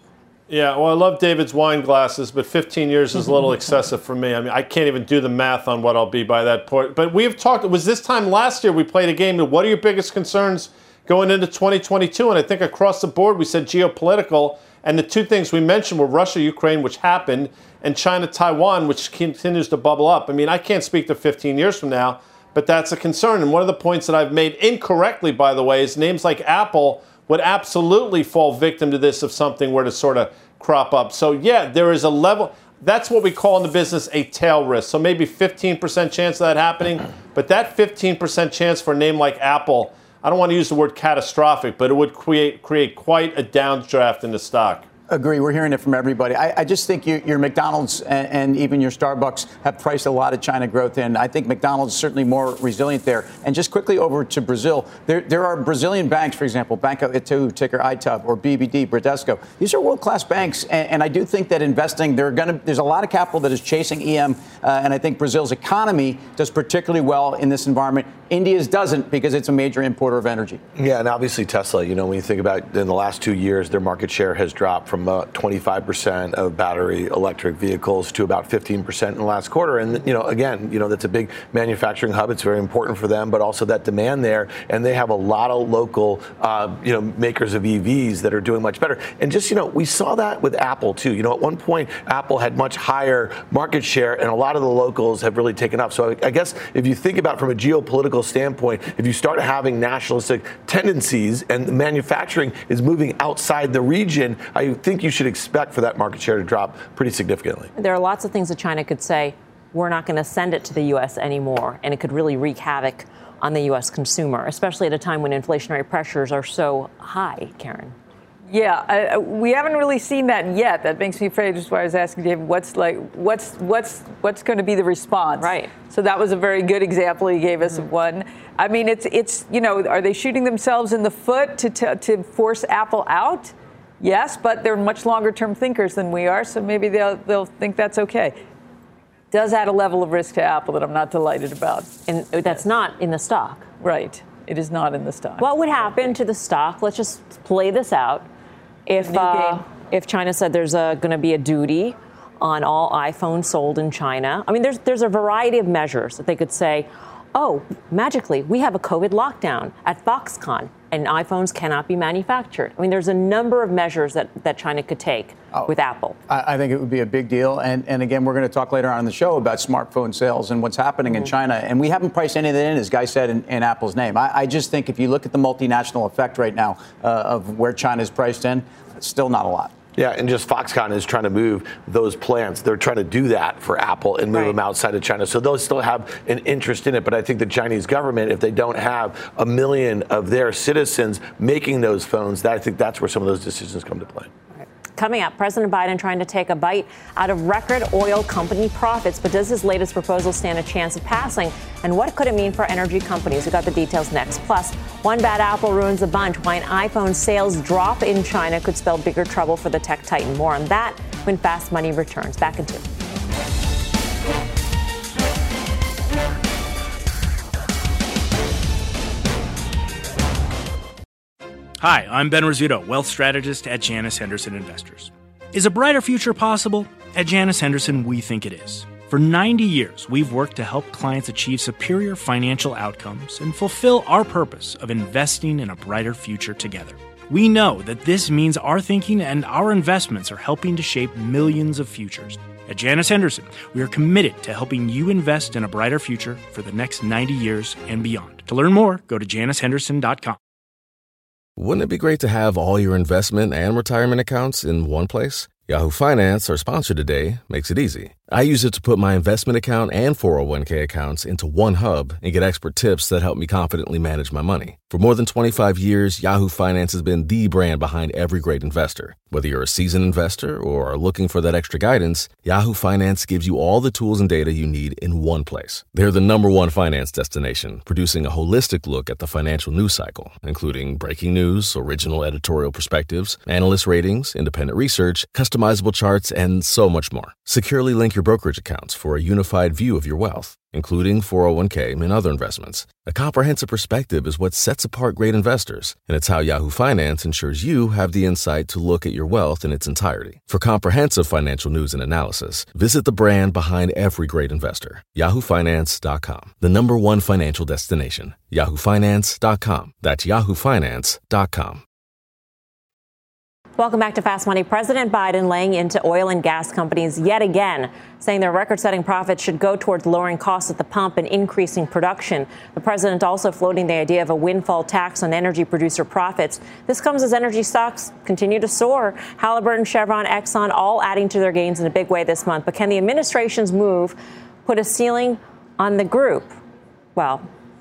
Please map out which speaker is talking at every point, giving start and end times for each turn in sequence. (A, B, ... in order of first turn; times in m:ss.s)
0:00.5-0:44.8 A
0:45.1-1:10.6 B
1:10.8-1:47.7 C
1:47.8-1:58.0 D
1:58.5-2:18.4 E
2:05.4-2:05.7 D
2:19.3-2:21.9 E
2:22.1-2:23.7 D
2:23.8-2:25.5 E
2:25.4-2:28.3 D
2:28.9-2:46.2 D
2:29.0-2:29.6 E
2:46.3-2:59.7 B
3:00.0-3:14.3 C
3:14.6-3:32.8 D
3:41.8-4:10.4 F
4:11.6-5:11.8 G
5:13.8-5:36.6 D
5:37.2-5:37.5 D